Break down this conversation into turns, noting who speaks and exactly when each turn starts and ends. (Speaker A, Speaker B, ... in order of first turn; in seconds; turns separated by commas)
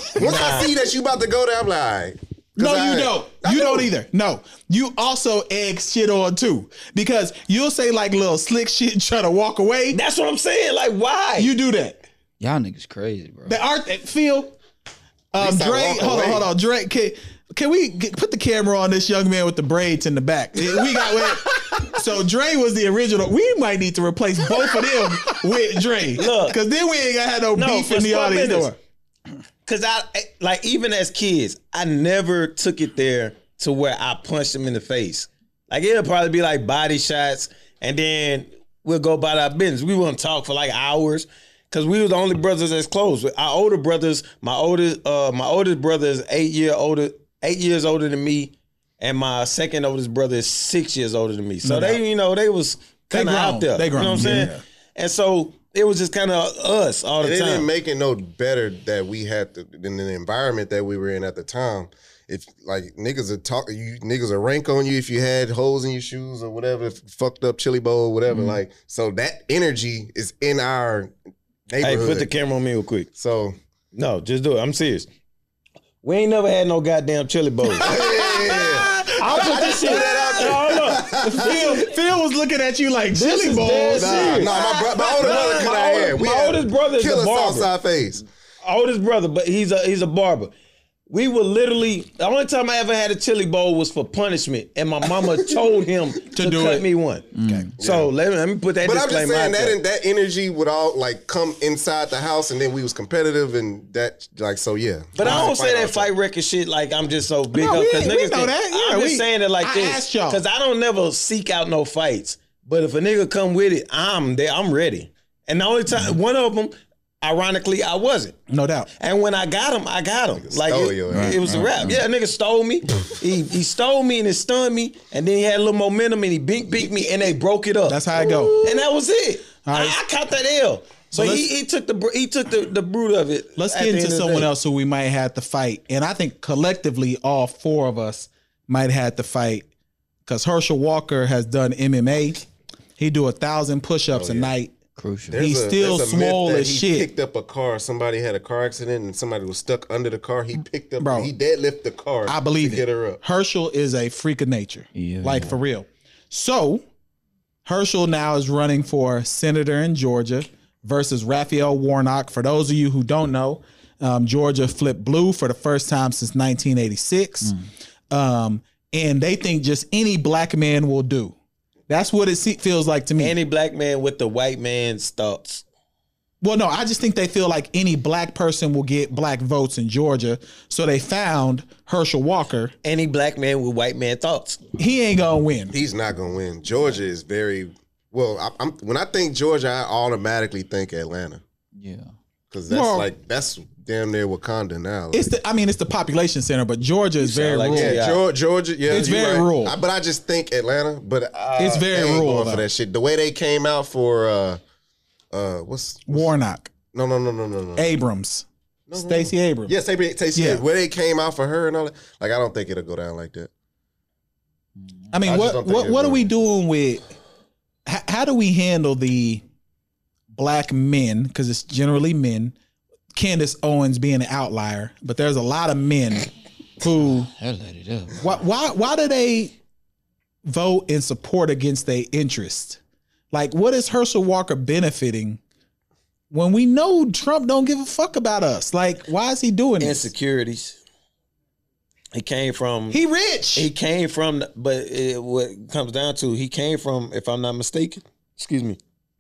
Speaker A: 0.1-3.9, Speaker B: 0.2-0.7, Speaker C: 2.6-10.0, Speaker B: 9.9-11.5, Speaker C: 11.4-12.0, Speaker D: 12.4-13.6, Speaker C: 13.5-14.6, Speaker C: 15.3-28.8, Speaker A: 15.4-16.5, Speaker B: 26.2-26.6, Speaker B: 27.6-28.7, Speaker B: 29.7-57.7, Speaker C: 51.6-52.0, Speaker C: 53.1-54.6, Speaker A: 57.2-71.1, Speaker D: 68.3-68.6, Speaker A: 71.7-72.3, Speaker B: 71.8-73.1, Speaker A: 73.2-73.6, Speaker B: 73.9-75.1, Speaker B: 76.0-77.9, Speaker A: 77.8-81.8, Speaker C: 77.8-84.6, Speaker B: 79.2-81.1, Speaker B: 83.1-87.7, Speaker A: 83.9-88.2, Speaker C: 85.2-85.5, Speaker B: 88.6-90.5, Speaker B: 91.1-99.8, Speaker C: 96.3-96.9, Speaker D: 97.3-97.7, Speaker A: 97.8-98.1, Speaker A: 98.8-106.1, Speaker B: 105.2-118.4, Speaker C: 107.5-110.4, Speaker C: 118.5-118.9, Speaker B: 119.0-134.5, Speaker A: 120.4-121.5, Speaker D: 121.1-122.0, Speaker C: 127.9-128.6, Speaker C: 129.7-130.0, Speaker C: 131.1-131.5, Speaker C: 133.6-139.7, Speaker C: 140.3-142.4, Speaker C: 143.0-144.8, Speaker A: 144.1-144.5, Speaker D: 145.0-145.4, Speaker A: 145.3-153.2, Speaker C: 145.4-147.1, Speaker C: 151.0-151.3, Speaker C: 152.3-156.8, Speaker D: 155.0-155.6, Speaker C: 157.7-167.6, Speaker C: 168.1-171.3, Speaker C: 171.9-173.4, Speaker B: 173.2-175.6, Speaker C: 176.4-182.7, Speaker B: 182.8-184.6, Speaker C: 184.8-185.7, Speaker A: 185.7-191.4, Speaker D: 191.8-192.1, Speaker A: 192.5-195.3, Speaker C: 192.7-193.1, Speaker C: 195.1-198.0, Speaker B: 197.2-198.2, Speaker A: 197.7-204.6, Speaker C: 198.9-199.8, Speaker B: 198.9-199.4, Speaker C: 201.6-202.7, Speaker A: 205.3-206.3, Speaker C: 206.1-206.7, Speaker A: 206.9-207.9, Speaker C: 207.8-209.7, Speaker A: 208.9-213.5, Speaker C: 210.3-210.6, Speaker C: 215.1-217.1, Speaker A: 215.2-216.3, Speaker C: 217.9-219.4, Speaker C: 220.3-222.6, Speaker C: 223.2-226.3, Speaker C: 226.8-227.3, Speaker D: 227.2-228.3, Speaker C: 228.2-229.6, Speaker C: 230.4-232.8, Speaker C: 233.3-235.4, Speaker C: 236.3-240.1, Speaker B: 239.8-240.8, Speaker B: 242.1-243.0, Speaker C: 242.9-243.7, Speaker B: 243.6-248.8